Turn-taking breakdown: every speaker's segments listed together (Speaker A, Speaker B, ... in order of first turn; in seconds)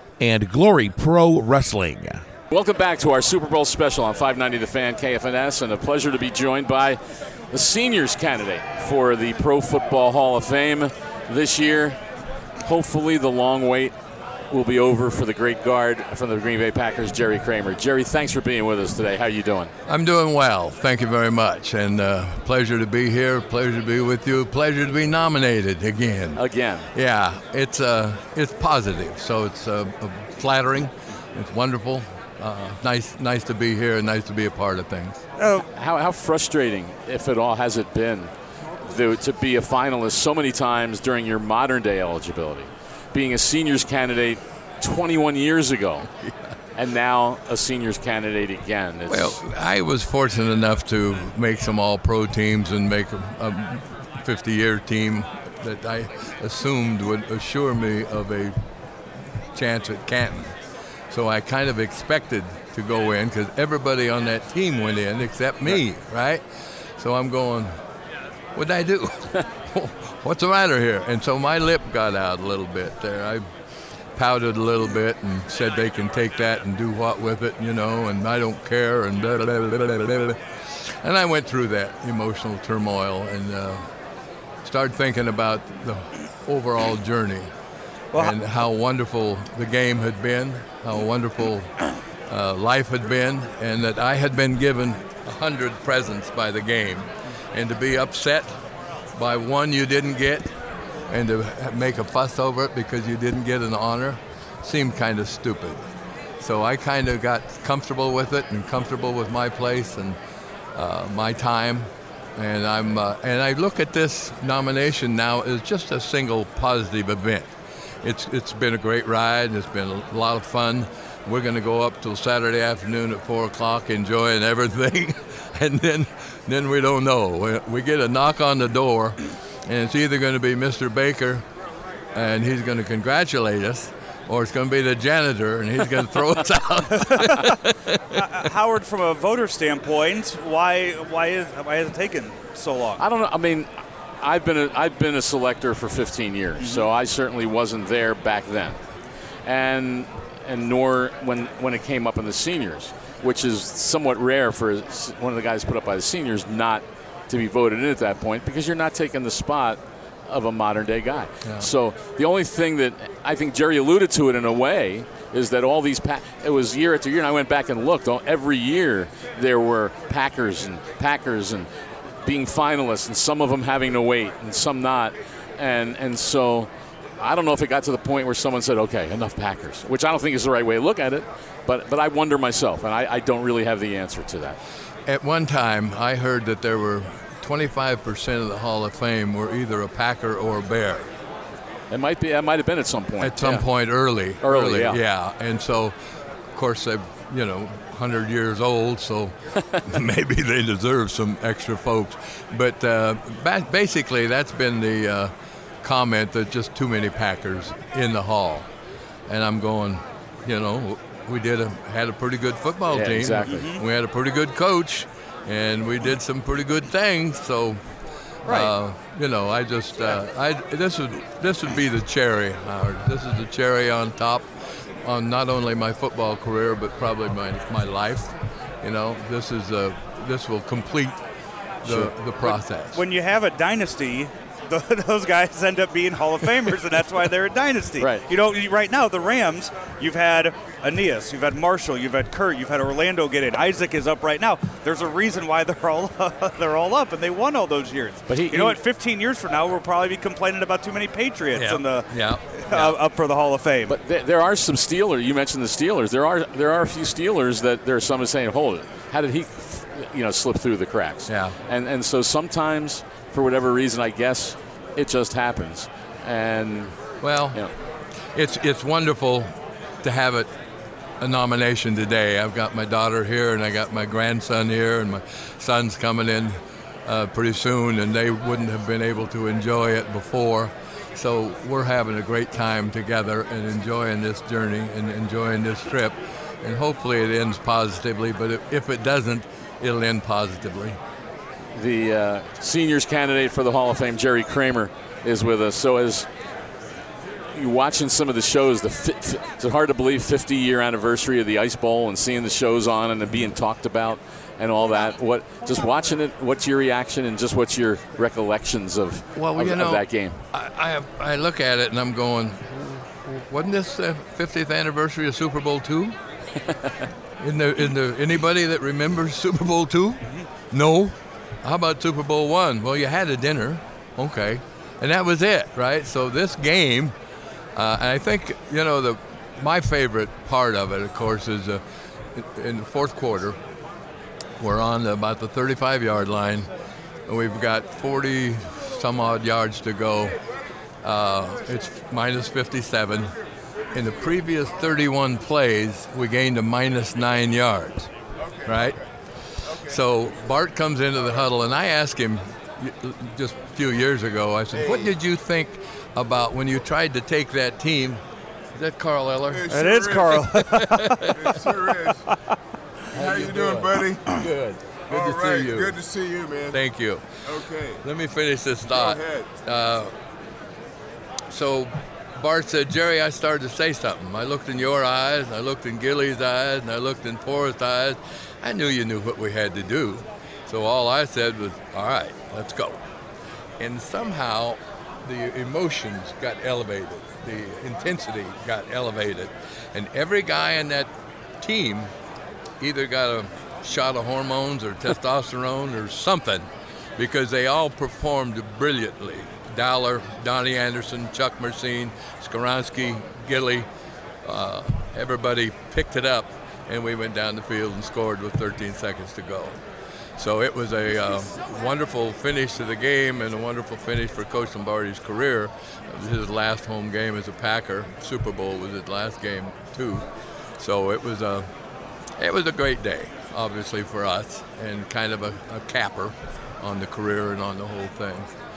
Speaker A: 0.2-2.2
Speaker B: 2.5-7.0, 7.5-12.0, 12.6-13.9, 14.5-19.7, 26.4-26.9, 35.7-38.3, 38.9-46.1, 46.8-49.4, 143.0-148.8, 149.4-171.7, 172.2-184.6, 191.9-193.7, 194.4-195.0, 212.9-213.7, 231.8-232.1, 238.0-238.2, 248.3-248.8, 253.9-267.0, 291.7-296.3, 297.5-310.4
Speaker C: 19.9-26.4, 26.9-35.2, 49.1-58.5, 59.5-60.5, 61.1-66.4, 67.0-67.8, 68.5-73.5, 74.2-83.8, 84.6-87.5, 88.2-91.8, 92.3-98.6, 99.1-100.5, 101.1-105.8, 106.4-110.2, 110.8-117.5, 118.0-131.4, 132.1-138.2, 185.1-191.1, 193.2-195.9, 196.5-205.3, 205.8-208.7, 209.3-217.8, 218.5-224.4, 225.0-231.2, 231.8-233.0, 251.6-253.0, 261.3-261.6, 267.2-267.6, 268.3-270.5, 271.2-291.0, 309.4-316.2, 317.4-327.1, 327.8-331.8, 332.3-333.6, 334.6-336.7, 337.2-340.4, 341.0-343.3, 343.9-348.1, 348.6-349.0, 349.9-358.2, 358.7-359.7, 360.6-361.3, 363.1-365.9, 366.7-367.2, 368.0-370.1, 371.5-383.0, 383.8-392.1, 392.8-403.9, 404.4-409.8, 410.4-420.3, 420.8-421.7, 422.4-428.5
Speaker D: 35.4-35.7, 138.1-143.0, 146.6-146.9, 213.5-213.8, 218.4-218.7, 232.4-253.9, 359.7-361.6
Speaker E: 348.4-349.1, 349.6-350.0, 354.7-355.1, 359.5-360.4, 361.3-362.3, 363.1-364.5, 365.1-366.8, 367.4-368.0, 368.9-369.5